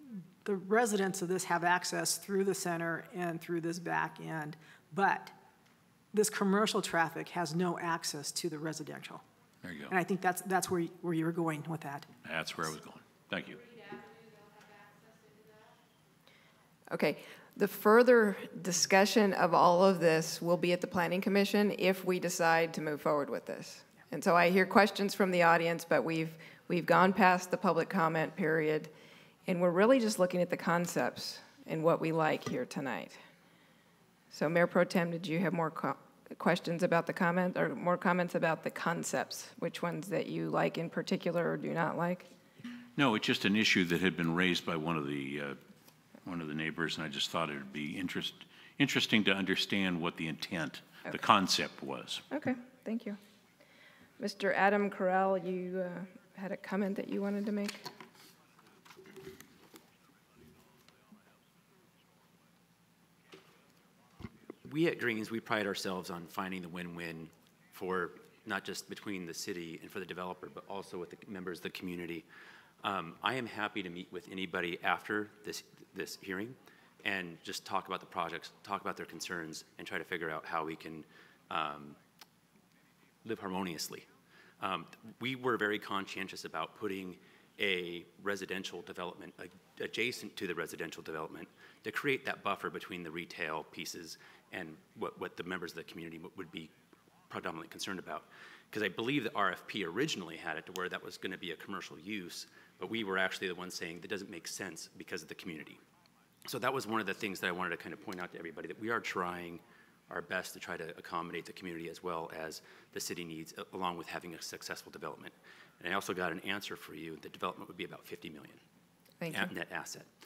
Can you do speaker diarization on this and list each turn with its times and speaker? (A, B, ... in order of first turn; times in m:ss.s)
0:00.4-0:05.3 A
0:06.1-0:09.2 A
0:09.6-0:09.9 B
0:09.9-0:12.1 A
0:12.2-0:13.6 B
0:16.9-0:28.9 C
0:29.5-0:33.2 C
0:34.3-0:42.3 C
0:43.0-0:45.6 B
0:46.2-0:52.2 B
0:52.3-0:53.2 C
0:54.2-0:57.8 C
1:04.6-1:12.2 D
1:12.8-1:22.0 D
1:23.2-1:36.7 D
1:37.3-1:45.8 D
1:46.5-1:58.6 D
1:59.2-1:59.5 C
1:59.3-2:00.1 D